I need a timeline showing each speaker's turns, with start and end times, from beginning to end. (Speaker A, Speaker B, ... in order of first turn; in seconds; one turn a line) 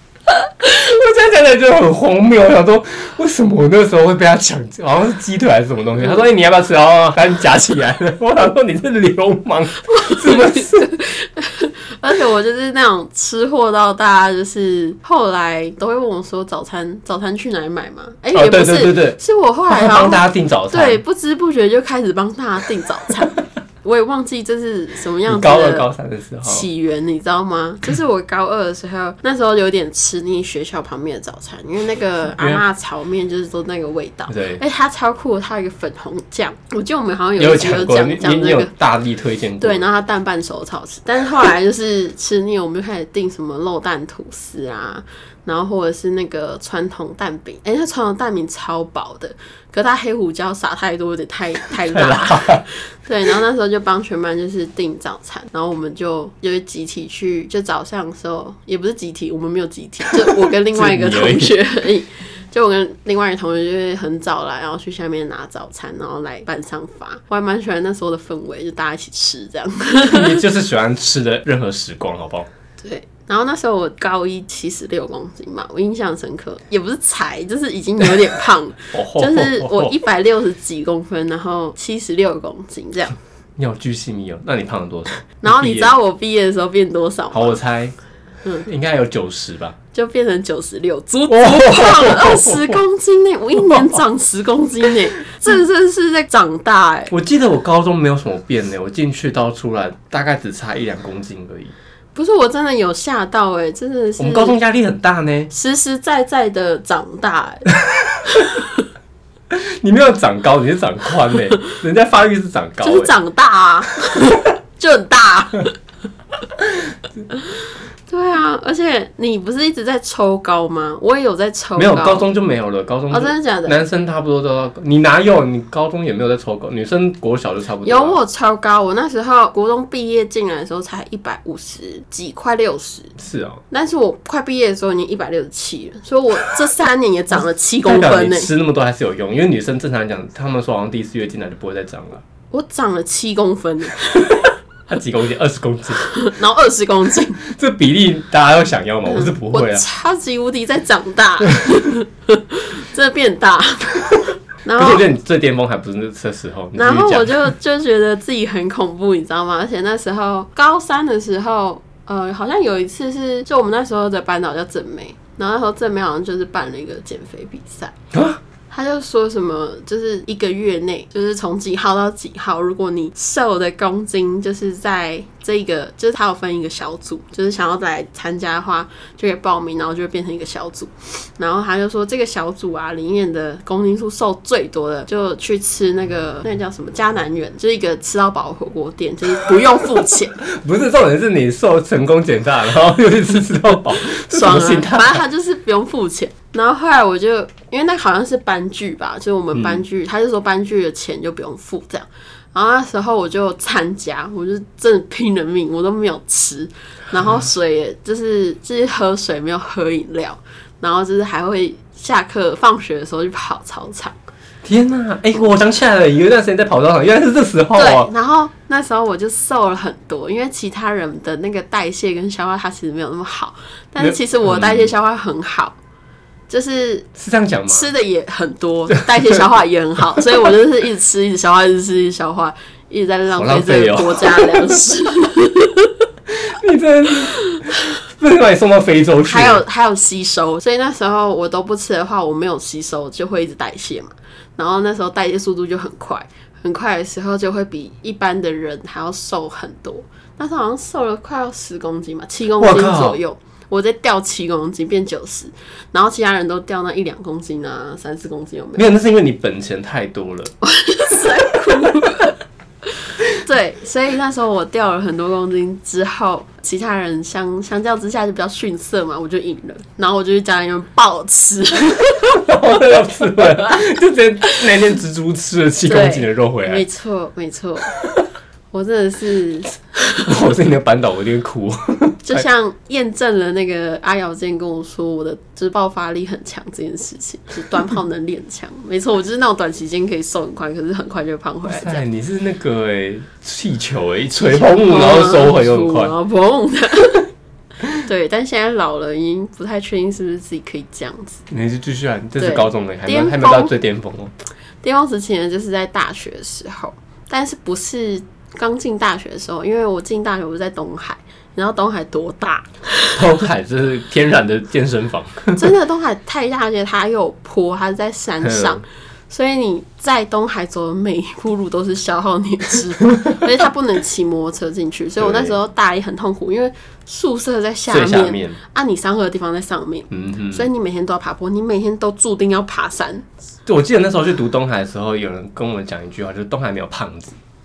Speaker A: 0.6-10.9
Speaker B: 9.9-25.9
Speaker A: 18.3-19.2
Speaker A: 19.7-21.0
Speaker A: 25.3-26.6
Speaker B: 26.4-38.7
Speaker A: 34.3-34.6
Speaker A: 37.4-39.9
Speaker B: 39.6-70.4
Speaker A: 51.8-52.6
Speaker A: 60.3-61.5
Speaker A: 70.0-72.5
Speaker B: 72.8-83.2
Speaker A: 78.9-79.9
Speaker A: 83.6-85.9
Speaker B: 85.4-87.6
Speaker A: 87.3-87.9
Speaker A: 88.6-89.8
Speaker B: 89.9-97.1
Speaker A: 91.3-92.8
Speaker A: 93.7-94.0
Speaker A: 97.1-101.7
Speaker B: 102.1-104.6
Speaker A: 104.2-105.5
Speaker B: 105.5-107.7
Speaker A: 107.9-108.2
Speaker B: 108.3-108.7
Speaker A: 109.5-113.1
Speaker B: 112.8-115.7
Speaker B: 118.1-122.3
Speaker A: 121.8-128.2
Speaker B: 123.1-123.8
Speaker B: 127.8-133.1
Speaker A: 133.2-133.6
Speaker B: 133.7-138.5
Speaker A: 137.8-142.2
Speaker B: 142.5-144.5
Speaker A: 144.9-146.1
Speaker B: 146.0-147.4
Speaker A: 147.4-149.8
Speaker B: 149.1-155.1
Speaker A: 154.7-157.5
Speaker B: 156.8-167.9
Speaker A: 168.1-168.4
Speaker B: 168.7-190.4
Speaker A: 190.4-195.2
Speaker B: 194.2-214.1
Speaker A: 214.6-218.1
Speaker B: 217.7-225.8
Speaker A: 224.0-224.9
Speaker B: 226.5-227.1
Speaker A: 227.2-227.9
Speaker B: 227.7-235.9
Speaker A: 229.0-229.3
Speaker A: 233.3-234.8
Speaker A: 236.3-239.6
Speaker B: 239.2-258.9
Speaker A: 252.6-253.2
Speaker A: 258.7-260.5
Speaker B: 260.6-262.3
Speaker B: 263.4-272.4
Speaker A: 272.4-276.8
Speaker B: 275.8-278.0
Speaker B: 278.7-280.3
Speaker A: 280.2-282.4
Speaker B: 282.2-292.0
Speaker A: 291.7-296.1
Speaker B: 294.4-297.3
Speaker B: 297.9-301.4
Speaker A: 301.5-304.3
Speaker B: 302.4-303.7
Speaker B: 304.8-313.2
Speaker A: 313.1-315.6
Speaker B: 315.5-333.3
Speaker A: 318.4-318.8
Speaker A: 325.2-325.6
Speaker A: 327.9-328.6
Speaker A: 330.1-330.6
Speaker A: 333.6-337.4